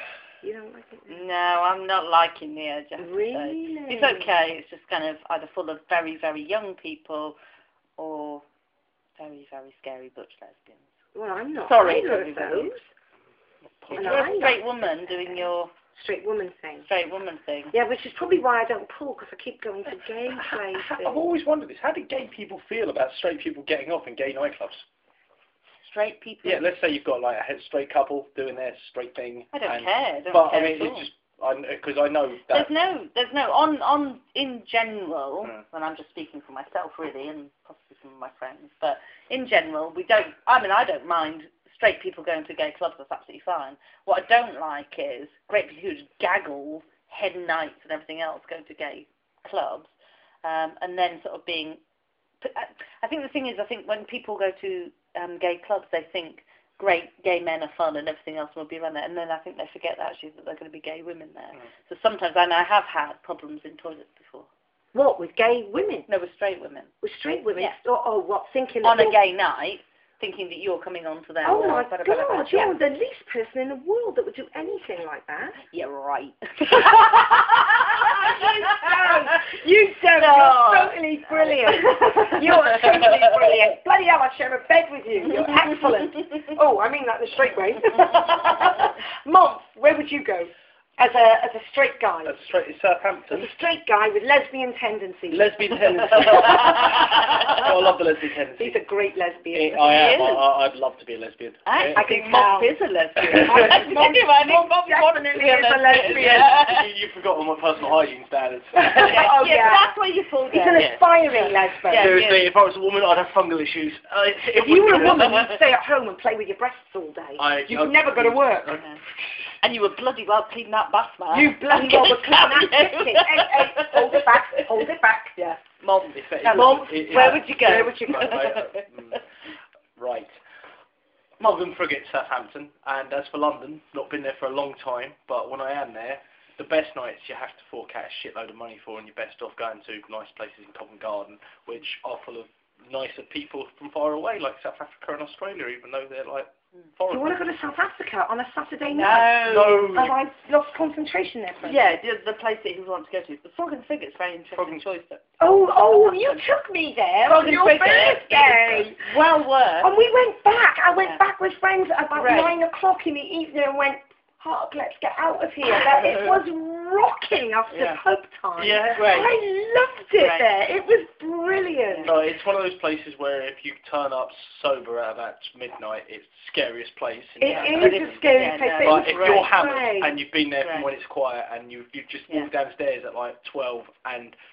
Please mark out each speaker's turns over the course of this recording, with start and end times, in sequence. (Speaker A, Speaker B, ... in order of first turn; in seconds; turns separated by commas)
Speaker A: 0.4-1.2, Speaker B: 1.1-7.3, Speaker A: 3.0-4.3, Speaker B: 8.0-8.4, Speaker B: 9.2-10.8, Speaker A: 11.2-12.9, Speaker B: 11.6-12.8, Speaker C: 13.8-14.3, Speaker A: 14.0-14.6, Speaker B: 14.0-15.7, Speaker A: 15.9-16.9, Speaker B: 16.9-17.7, Speaker A: 17.7-21.3, Speaker C: 20.2-24.9, Speaker B: 25.8-26.7, Speaker C: 26.4-32.7, Speaker B: 29.5-31.1, Speaker B: 32.5-49.9, Speaker B: 50.4-51.8, Speaker B: 52.4-64.5, Speaker A: 64.9-66.1, Speaker B: 66.1-66.9, Speaker A: 67.0-69.2, Speaker B: 68.8-72.8, Speaker A: 71.4-75.6, Speaker B: 75.6-79.4, Speaker A: 76.6-92.4, Speaker B: 80.2-83.7, Speaker C: 92.2-93.5, Speaker A: 93.3-96.9, Speaker C: 95.3-98.8, Speaker B: 96.2-97.5, Speaker A: 98.6-100.3, Speaker C: 99.5-102.1, Speaker B: 99.8-100.4, Speaker B: 101.7-106.9, Speaker A: 101.9-102.7, Speaker C: 103.2-103.8, Speaker A: 103.3-106.5, Speaker C: 106.0-109.5, Speaker A: 108.7-110.0, Speaker B: 109.0-110.9, Speaker A: 110.5-112.2, Speaker C: 110.7-111.0, Speaker B: 111.9-112.5, Speaker C: 111.9-115.6, Speaker A: 114.5-118.8, Speaker C: 117.4-118.9, Speaker B: 119.6-128.8, Speaker A: 121.3-125.4, Speaker C: 126.1-129.2, Speaker A: 126.4-128.4, Speaker C: 130.0-130.4, Speaker C: 131.4-147.3, Speaker A: 147.1-151.9, Speaker B: 148.9-150.0, Speaker C: 149.4-150.2, Speaker B: 151.6-155.2, Speaker C: 154.5-154.8, Speaker A: 155.4-159.2, Speaker B: 157.3-159.9, Speaker A: 159.8-172.1, Speaker B: 162.2-162.6, Speaker C: 168.6-169.3, Speaker B: 170.2-170.4, Speaker C: 172.0-178.2, Speaker A: 177.4-180.2, Speaker B: 177.5-179.6, Speaker C: 178.8-184.4, Speaker B: 180.6-180.9